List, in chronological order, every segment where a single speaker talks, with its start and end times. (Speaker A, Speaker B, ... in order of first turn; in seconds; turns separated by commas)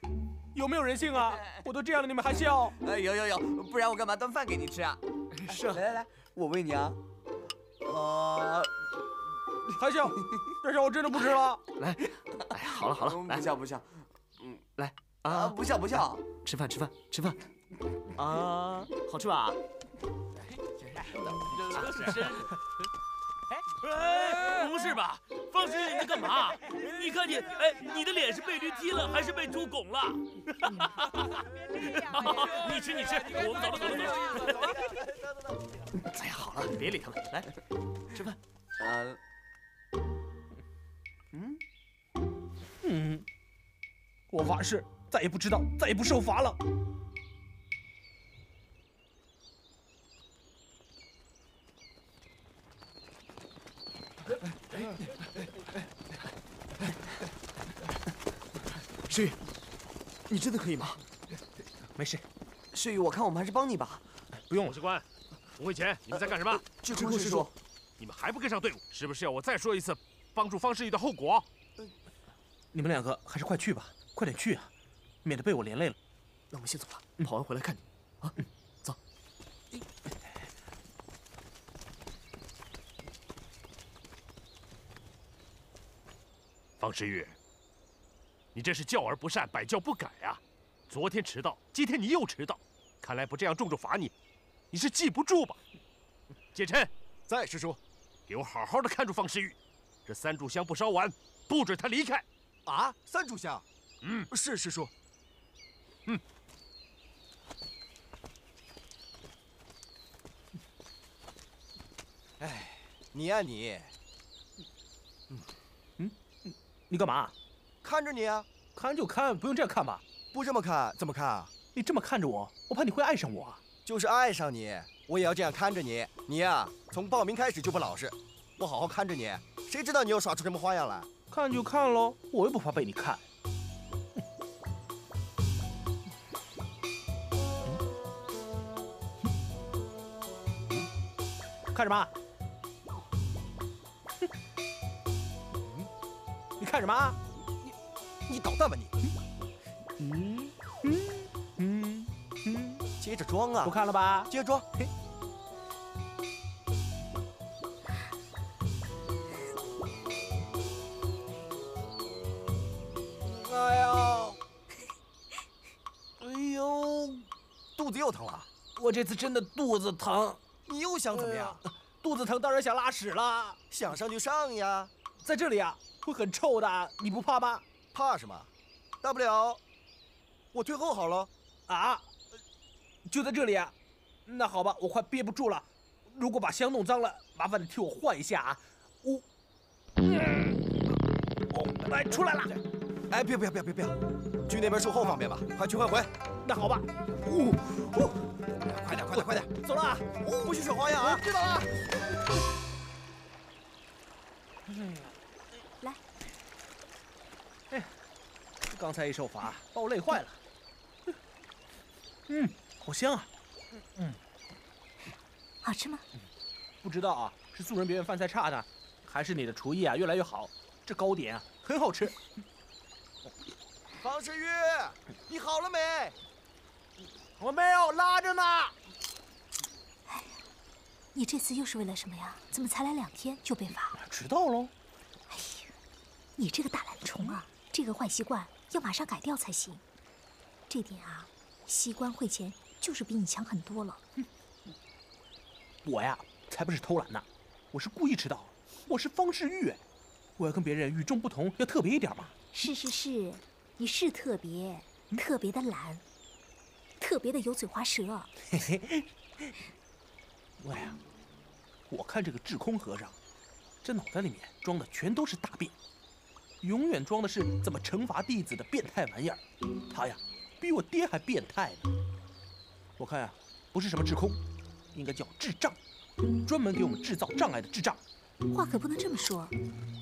Speaker A: 0.5-2.8, Speaker B: 2.8-7.0, Speaker C: 5.5-5.8, Speaker B: 7.8-8.7, Speaker A: 9.7-11.6, Speaker C: 11.8-13.5, Speaker B: 12.8-14.7, Speaker C: 14.8-15.6, Speaker B: 15.2-16.2, Speaker C: 16.4-17.4, Speaker C: 18.1-19.6, Speaker B: 20.9-21.3, Speaker D: 21.8-22.3, Speaker D: 23.8-31.1, Speaker D: 31.7-34.5, Speaker C: 36.1-37.5, Speaker C: 38.1-38.4, Speaker B: 38.8-39.2, Speaker B: 41.3-41.6, Speaker A: 42.8-43.2, Speaker A: 44.3-46.6, Speaker C: 59.1-59.4, Speaker C: 60.3-61.0, Speaker A: 62.0-62.2, Speaker B: 62.7-64.0, Speaker E: 64.5-65.0, Speaker E: 65.6-66.6, Speaker B: 66.6-67.5, Speaker C: 66.9-67.5, Speaker E: 68.0-71.4, Speaker A: 72.7-74.7, Speaker A: 75.2-76.0, Speaker C: 76.5-79.0, Speaker E: 86.8-87.3, Speaker E: 88.5-94.1, Speaker E: 94.7-95.6, Speaker E: 96.5-96.9, Speaker F: 97.3-97.8, Speaker E: 98.3-102.2, Speaker F: 102.7-103.6, Speaker E: 104.0-104.3, Speaker F: 104.3-104.9, Speaker F: 112.4-113.9, Speaker A: 116.0-117.3, Speaker F: 117.8-118.5, Speaker A: 118.7-120.0, Speaker F: 120.3-121.5, Speaker A: 121.7-123.6, Speaker F: 123.8-131.1, Speaker A: 131.3-133.2, Speaker A: 141.7-142.1, Speaker A: 146.6-147.2, Speaker F: 148.3-148.9, Speaker A: 150.0-152.8, Speaker F: 153.4-153.7, Speaker A: 153.6-154.9, Speaker F: 154.3-154.6, Speaker A: 163.7-164.1, Speaker F: 163.8-164.3, Speaker A: 166.2-167.2, Speaker F: 167.8-168.5, Speaker A: 168.8-170.4, Speaker F: 170.7-171.6, Speaker A: 171.1-173.6, Speaker F: 173.7-174.9, Speaker A: 175.2-177.6, Speaker F: 177.9-178.5, Speaker F: 179.0-179.6, Speaker F: 180.5-181.3, Speaker A: 181.7-182.0, Speaker A: 183.1-183.7, Speaker A: 184.3-189.2, Speaker A: 191.5-192.5, Speaker F: 193.1-193.9, Speaker F: 194.5-196.1, Speaker A: 196.4-198.1, Speaker F: 198.7-199.5, Speaker A: 198.9-200.1, Speaker F: 200.2-201.6, Speaker A: 201.0-201.5, Speaker A: 204.7-205.1, Speaker A: 208.7-210.4, Speaker A: 212.3-213.3, Speaker G: 215.6-216.0, Speaker A: 216.8-222.2, Speaker F: 224.0-226.1, Speaker A: 227.4-228.7, Speaker G: 230.1-230.4, Speaker G: 231.1-233.9, Speaker A: 234.0-234.7, Speaker G: 235.3-235.7, Speaker G: 236.4-239.8, Speaker G: 240.7-244.0, Speaker A: 245.8-249.8, Speaker A: 250.4-252.3, Speaker G: 252.5-256.0, Speaker G: 257.0-258.3, Speaker A: 258.5-259.0, Speaker A: 260.6-261.0, Speaker A: 261.9-263.1, Speaker A: 263.8-265.7, Speaker A: 266.6-269.4, Speaker A: 269.9-271.9, Speaker A: 273.0-274.4, Speaker A: 274.9-275.8, Speaker A: 276.4-278.0, Speaker G: 278.5-279.5